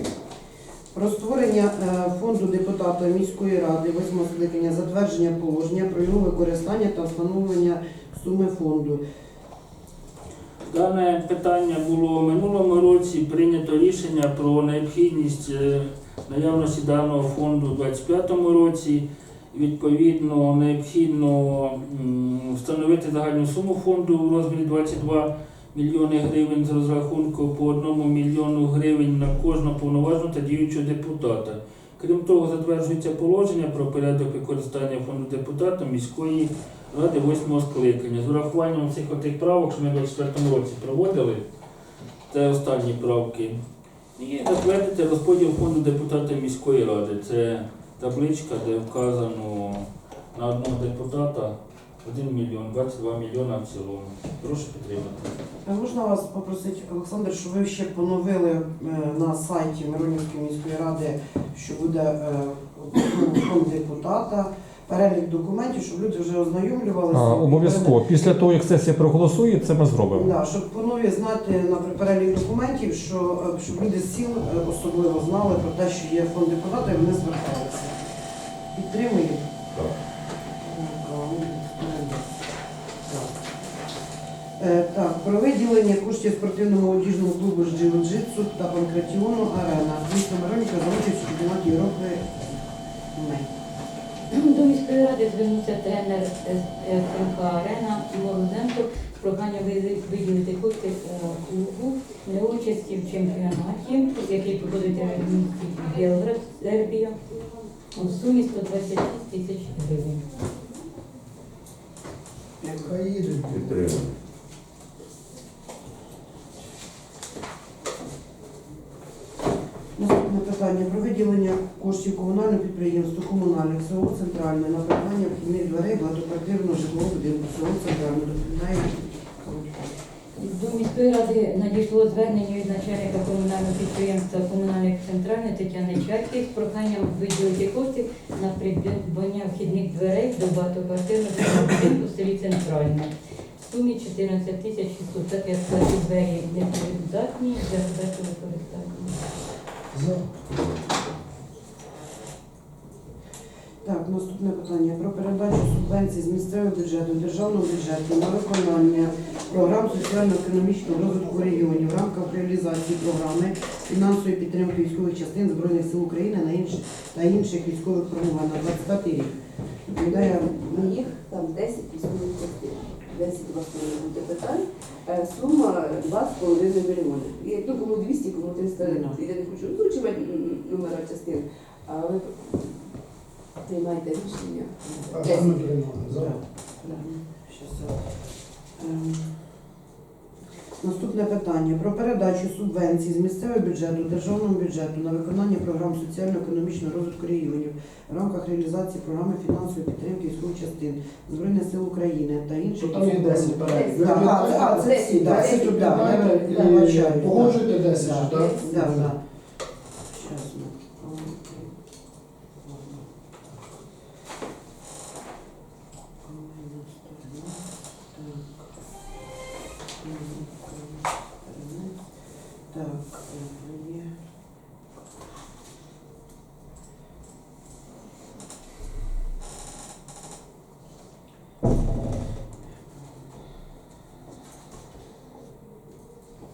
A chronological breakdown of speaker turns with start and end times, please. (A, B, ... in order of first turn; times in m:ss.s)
0:00.9-0:09.0 A
0:10.7-0:41.4 B
0:42.3-0:43.6 B
0:44.2-0:55.3 B
0:55.6-1:08.5 A
1:07.1-1:10.2 C
1:10.1-1:17.9 A
1:18.7-1:19.5 A
1:20.6-1:22.3 A
1:23.0-1:23.4 A
1:24.6-1:32.4 A
1:33.1-1:33.5 A
1:34.3-1:47.2 D
1:47.9-1:50.2 D
1:52.6-1:52.9 A
1:52.6-1:54.1 E
2:00.0-2:10.0 A
2:10.4-2:29.3 D
2:29.9-2:30.4 E
2:33.8-2:49.3 A
2:49.9-2:51.0 A
2:50.1-3:02.8 F
2:58.8-2:59.2 A
3:03.6-3:05.5 F
3:04.8-3:05.1 A
3:05.1-3:06.4 E
3:06.1-3:08.0 A
3:08.8-3:09.3 A
3:10.8-3:29.2 A
3:22.8-3:29.1 E
3:23.7-3:26.5 F
3:30.1-3:31.7 A
3:32.6-3:33.0 A
3:36.2-3:38.6 A
3:40.0-3:42.0 A
3:42.7-3:44.1 A